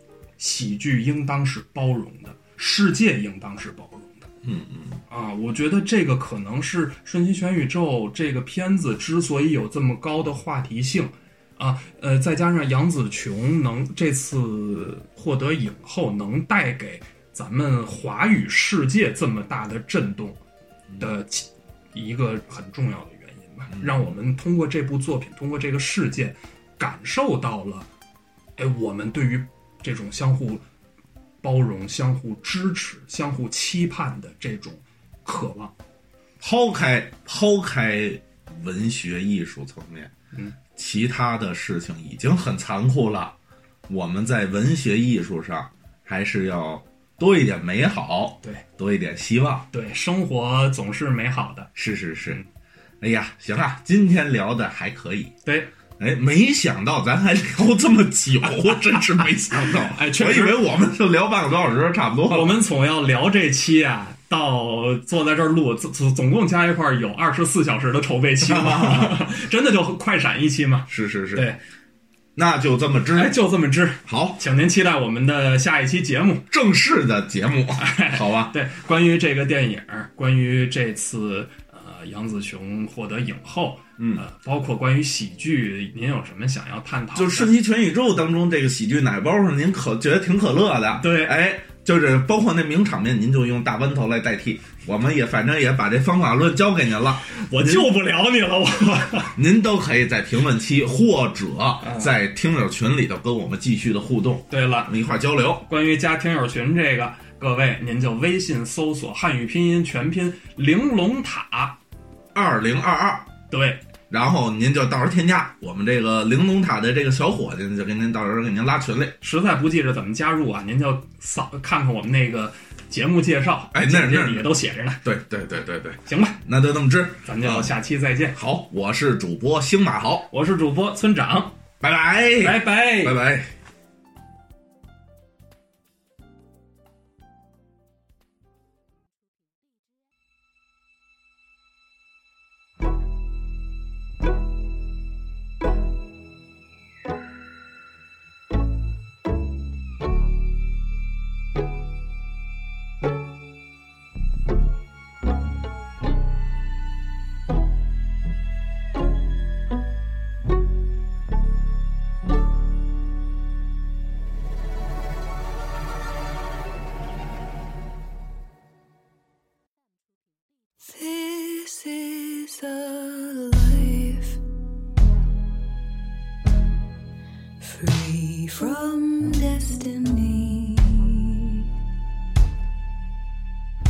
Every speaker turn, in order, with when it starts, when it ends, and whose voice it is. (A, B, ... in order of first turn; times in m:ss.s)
0:00.4-0:04.3 A
0:04.4-0:05.0 B
0:05.1-0:20.4 A
0:21.0-0:27.9 A
0:23.7-0:24.0 B
0:28.6-0:30.6 A
0:31.4-0:35.7 A
0:36.4-0:40.1 B
0:40.7-0:43.4 B
0:43.9-0:49.7 B
0:49.7-0:51.7 A
0:51.8-0:52.4 B
0:53.0-0:55.3 B
0:55.4-0:55.7 A
0:56.0-1:02.6 B
0:58.6-1:00.7 A
1:02.3-1:11.6 A
1:08.4-1:09.3 B
1:10.9-1:11.5 B
1:12.4-1:13.4 B
1:13.1-1:16.5 A
1:14.0-1:14.4 B
1:16.5-1:18.6 B
1:17.8-1:27.5 A
1:24.0-1:24.2 B
1:27.1-1:37.9 B
1:31.0-1:31.4 A
1:37.3-1:39.4 A
1:39.4-1:45.7 B
1:41.8-1:42.1 A
1:44.5-1:44.9 A
1:45.6-1:51.8 A
1:52.3-1:53.3 B
1:53.5-1:53.8 A
1:54.1-1:59.2 B
1:59.2-2:05.0 A
2:03.7-2:04.5 B
2:05.0-2:07.8 B
2:06.1-2:06.4 A
2:07.2-2:08.4 A
2:08.3-2:10.3 B
2:10.3-2:11.6 A
2:11.8-2:13.5 B
2:12.4-2:13.2 A
2:50.8-2:54.4 C
2:57.6-3:01.6 C